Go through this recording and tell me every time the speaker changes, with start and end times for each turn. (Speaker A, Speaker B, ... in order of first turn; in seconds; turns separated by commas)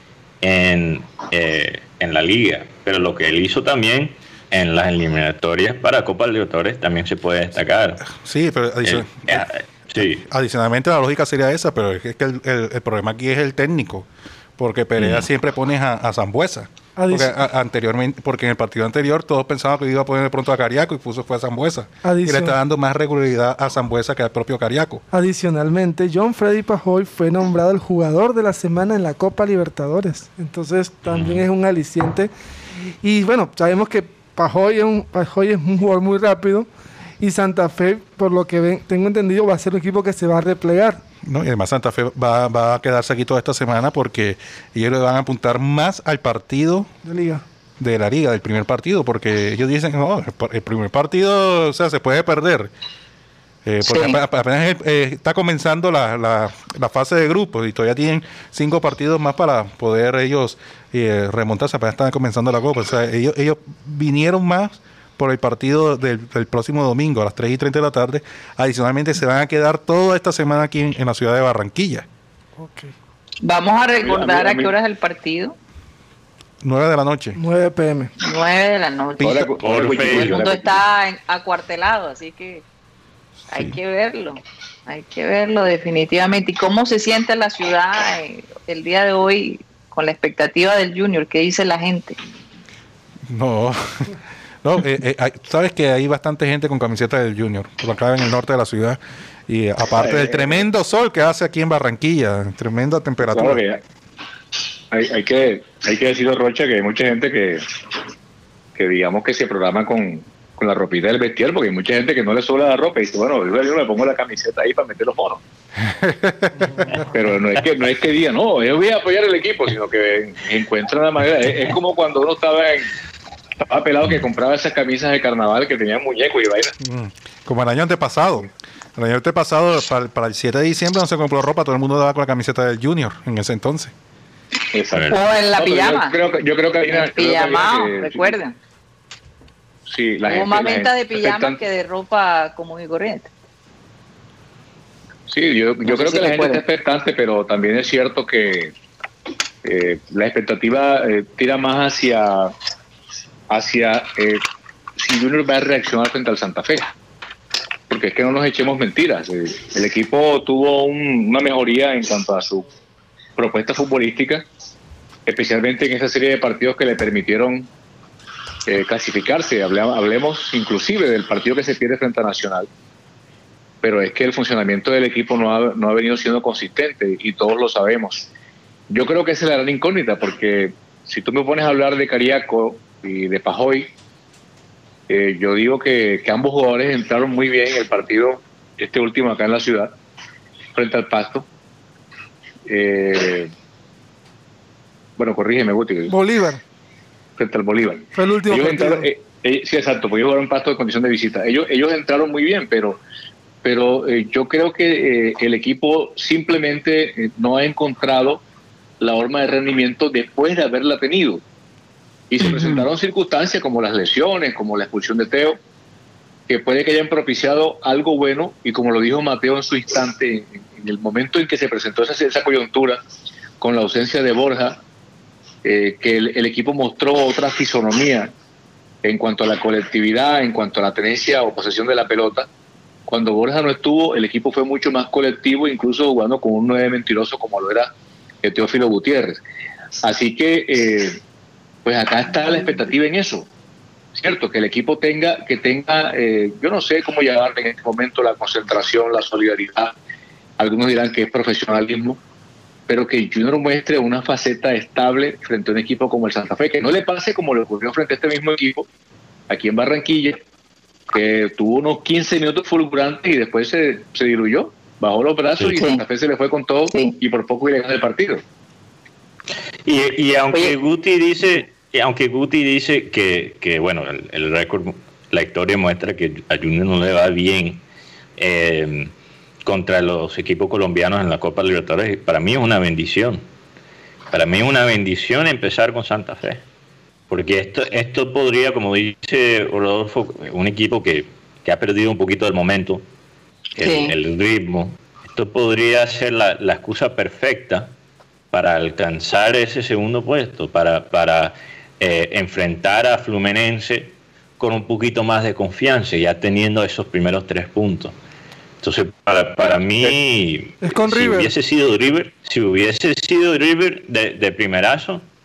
Speaker A: 0.4-8.1, Speaker B: 8.1-9.5, Speaker A: 8.8-10.3, Speaker B: 10.3-25.0, Speaker A: 15.0-15.3, Speaker C: 17.0-17.4, Speaker C: 22.1-22.6, Speaker C: 25.1-32.3, Speaker A: 31.1-31.5, Speaker C: 33.0-36.7, Speaker C: 37.2-41.0, Speaker B: 41.2-46.9, Speaker C: 47.0-47.4, Speaker B: 47.8-52.7, Speaker B: 53.6-72.1, Speaker D: 53.8-54.2, Speaker C: 72.6-72.9, Speaker D: 73.4-75.6, Speaker E: 74.0-74.7, Speaker B: 76.6-77.4, Speaker C: 77.4-78.1, Speaker D: 78.2-82.6, Speaker E: 79.2-80.8, Speaker A: 79.6-80.4, Speaker D: 83.5-92.2, Speaker B: 83.5-83.8, Speaker B: 93.3-103.6, Speaker E: 100.0-100.7, Speaker E: 103.2-103.8, Speaker E: 104.9-107.6, Speaker E: 108.8-115.4, Speaker B: 115.9-116.8, Speaker E: 117.0-122.9, Speaker E: 123.7-126.7, Speaker B: 126.8-133.9, Speaker E: 134.7-138.4, Speaker A: 134.9-135.2, Speaker D: 135.1-136.2, Speaker D: 136.9-138.6, Speaker E: 139.9-141.6, Speaker D: 140.2-143.3, Speaker E: 145.3-148.7, Speaker D: 145.8-146.6, Speaker E: 149.6-152.5, Speaker E: 153.5-154.4, Speaker E: 155.0-156.9, Speaker E: 157.9-162.7, Speaker E: 163.4-164.4, Speaker E: 165.3-167.7, Speaker E: 168.7-172.7, Speaker E: 173.8-178.3, Speaker E: 178.9-183.9, Speaker E: 185.1-189.9, Speaker E: 190.8-191.5, Speaker E: 192.7-193.5, Speaker E: 195.2-196.1, Speaker C: 196.1-196.6, Speaker E: 197.4-203.0, Speaker C: 198.2-199.1, Speaker E: 203.6-208.4, Speaker E: 209.0-211.4, Speaker E: 212.3-215.6, Speaker D: 212.4-212.9, Speaker E: 216.5-223.0, Speaker E: 223.6-224.8, Speaker E: 225.6-228.3, Speaker E: 229.0-232.5, Speaker E: 233.1-237.9, Speaker E: 238.4-239.4, Speaker E: 240.0-241.2, Speaker E: 241.8-243.5, Speaker E: 244.2-249.9, Speaker E: 250.6-252.2, Speaker E: 252.9-258.9, Speaker E: 259.5-260.4, Speaker E: 261.1-268.4, Speaker D: 265.6-266.0, Speaker D: 266.9-267.2, Speaker A: 269.9-277.8, Speaker A: 278.4-279.1, Speaker A: 279.6-283.4, Speaker A: 284.3-286.6, Speaker A: 287.3-293.1, Speaker A: 293.8-297.9, Speaker D: 293.8-294.1, Speaker A: 298.5-308.1, Speaker A: 308.8-315.2, Speaker C: 310.8-311.5